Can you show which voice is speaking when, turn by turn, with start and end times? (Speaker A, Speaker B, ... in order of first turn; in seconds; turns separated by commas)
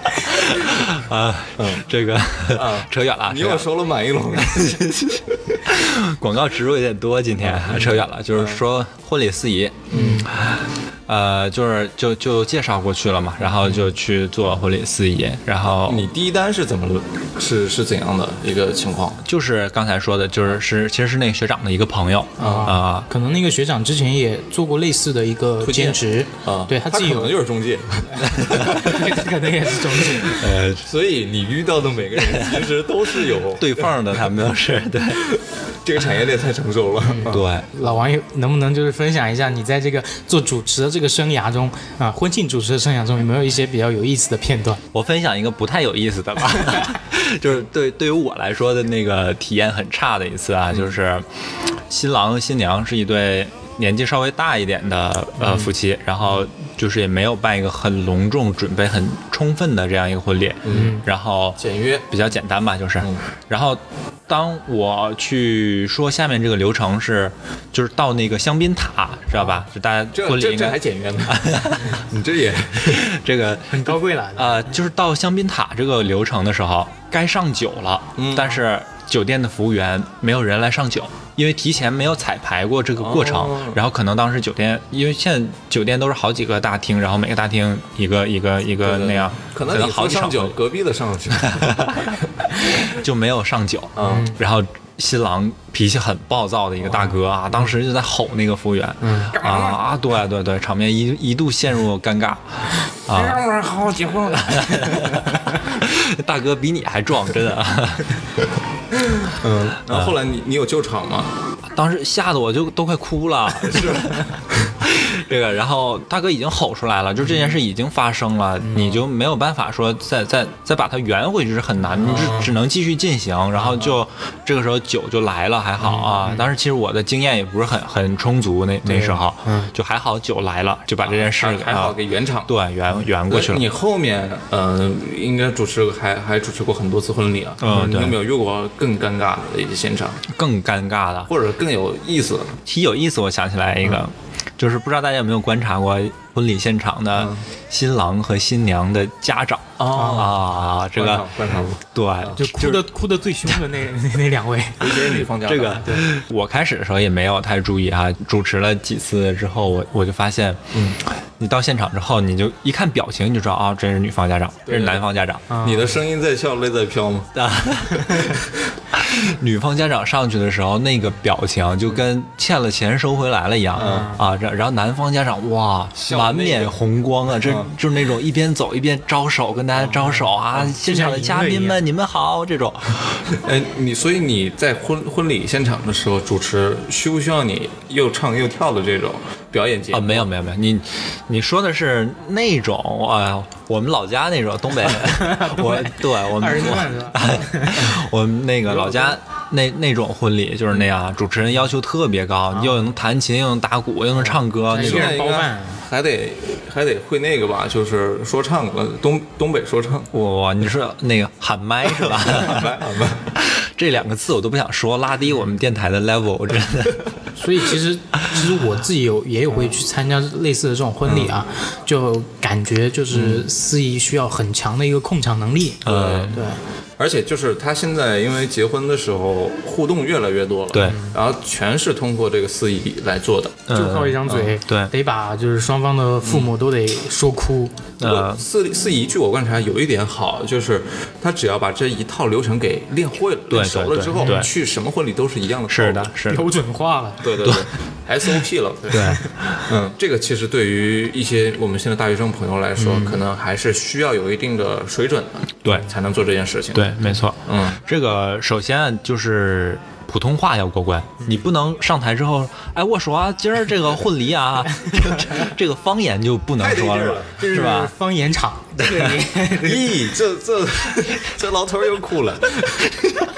Speaker A: 0.2-3.7, Speaker B: 1.6-1.9, Speaker B: 2.5-5.4, Speaker A: 4.4-16.1, Speaker B: 7.4-8.6, Speaker C: 9.9-10.3, Speaker B: 9.9-10.2, Speaker B: 13.5-13.8, Speaker B: 15.9-19.2, Speaker A: 19.2-23.1, Speaker B: 22.4-22.8, Speaker C: 22.4-27.4, Speaker B: 25.6-28.9, Speaker C: 28.3-30.5, Speaker A: 28.4-28.8, Speaker A: 30.3-30.9, Speaker B: 30.8-33.9, Speaker A: 32.2-32.6, Speaker A: 33.6-35.3, Speaker B: 35.1-37.5, Speaker C: 37.0-44.8, Speaker A: 37.3-37.7, Speaker A: 44.9-51.3, Speaker A: 51.9-72.0, Speaker B: 60.6-61.0, Speaker C: 60.7-61.0, Speaker B: 61.6-62.1, Speaker B: 70.1-73.1, Speaker A: 72.8-90.5, Speaker C: 73.7-74.8, Speaker B: 78.2-78.6, Speaker B: 83.0-83.8, Speaker B: 88.8-92.1, Speaker A: 91.4-103.4, Speaker B: 94.0-94.3, Speaker C: 94.0-94.4, Speaker B: 96.9-97.1, Speaker B: 99.0-99.8, Speaker B: 103.0-105.1, Speaker A: 104.4-108.1, Speaker B: 109.2-111.4, Speaker A: 109.9-110.2, Speaker A: 111.8-131.9, Speaker B: 113.7-114.7, Speaker C: 118.6-119.0, Speaker B: 122.0-122.5, Speaker C: 125.9-126.5, Speaker C: 128.8-129.7, Speaker B: 131.1-132.5, Speaker A: 132.5-133.6, Speaker B: 133.3-140.2, Speaker A: 137.6-138.2, Speaker A: 140.3-141.3, Speaker B: 141.3-142.6, Speaker A: 142.7-152.9, Speaker B: 147.2-147.4, Speaker B: 149.8-152.4, Speaker C: 149.9-150.3, Speaker C: 152.4-155.2, Speaker B: 154.8-156.0, Speaker A: 155.4-160.6, Speaker B: 160.7-161.0, Speaker A: 161.4-165.4, Speaker B: 164.7-165.1, Speaker C: 165.5-165.9, Speaker B: 165.6-167.4, Speaker A: 167.3-168.3, Speaker B: 168.2-168.5, Speaker A: 168.9-183.4, Speaker B: 173.8-174.2, Speaker C: 173.8-174.2, Speaker B: 176.0-176.8, Speaker B: 177.3-177.7, Speaker B: 179.8-180.2, Speaker C: 180.5-181.8, Speaker B: 183.4-190.3, Speaker A: 189.9-205.2, Speaker C: 195.0-197.9, Speaker C: 198.7-199.1, Speaker C: 202.5-202.9, Speaker C: 204.3-205.8, Speaker B: 204.7-210.1, Speaker A: 210.1-212.8, Speaker B: 211.9-213.3, Speaker A: 213.4-217.0, Speaker C: 217.4-226.6, Speaker B: 221.1-221.3, Speaker B: 223.1-223.5, Speaker B: 225.8-226.4, Speaker A: 225.8-226.4, Speaker B: 227.0-233.7, Speaker C: 230.8-231.1, Speaker A: 233.7-234.9, Speaker C: 233.7-237.8, Speaker B: 236.2-236.5, Speaker A: 238.0-238.4, Speaker B: 238.0-246.2, Speaker A: 243.5-244.5, Speaker C: 244.2-244.5, Speaker A: 245.7-246.5, Speaker C: 246.3-247.3, Speaker B: 247.2-256.9, Speaker A: 248.9-249.2, Speaker C: 252.8-253.2, Speaker A: 256.7-267.9, Speaker B: 257.5-257.8, Speaker B: 266.6-267.4, Speaker C: 267.4-270.0, Speaker B: 269.4-273.2